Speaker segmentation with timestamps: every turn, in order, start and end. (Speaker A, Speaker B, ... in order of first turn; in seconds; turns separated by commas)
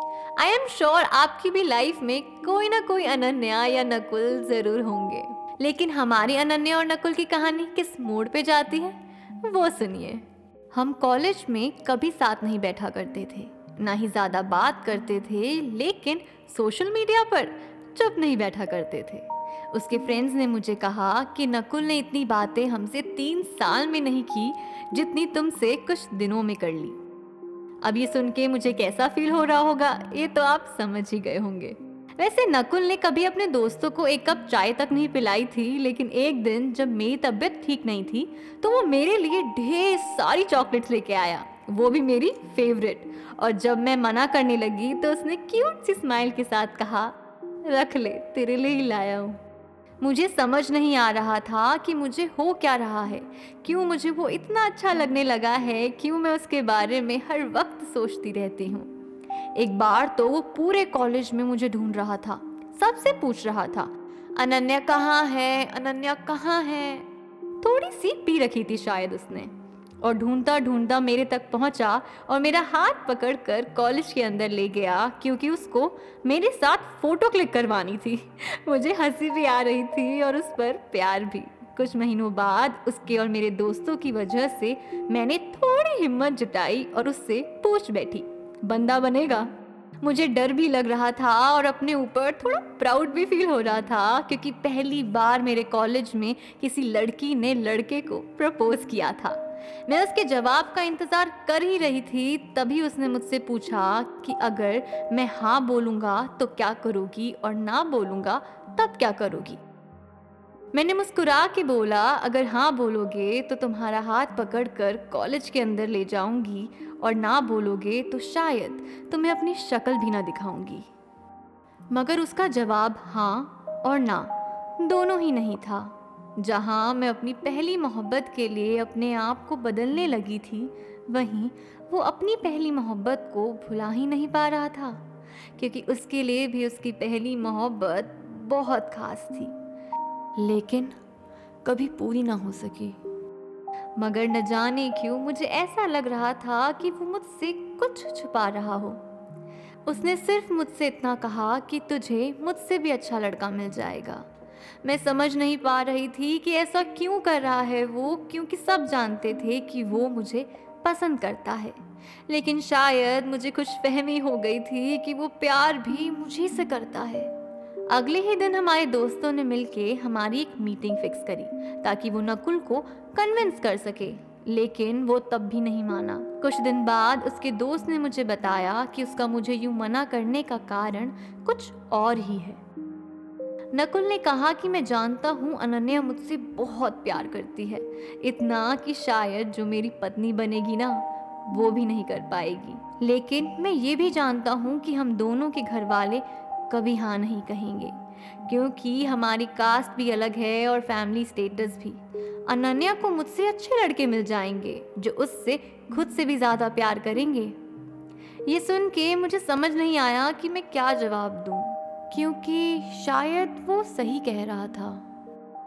Speaker A: 0.4-27.0, Speaker A: 27.8-49.4, Speaker A: 50.0-58.9, Speaker A: 59.5-67.1, Speaker A: 67.6-89.5, Speaker A: 90.0-109.6, Speaker A: 110.7-120.9, Speaker A: 121.9-135.0, Speaker A: 135.6-139.5, Speaker A: 140.4-141.0, Speaker A: 141.6-143.0, Speaker A: 144.0-149.0, Speaker A: 149.9-154.3, Speaker A: 154.8-167.3, Speaker A: 167.9-182.6, Speaker A: 183.7-207.6, Speaker A: 208.4-215.1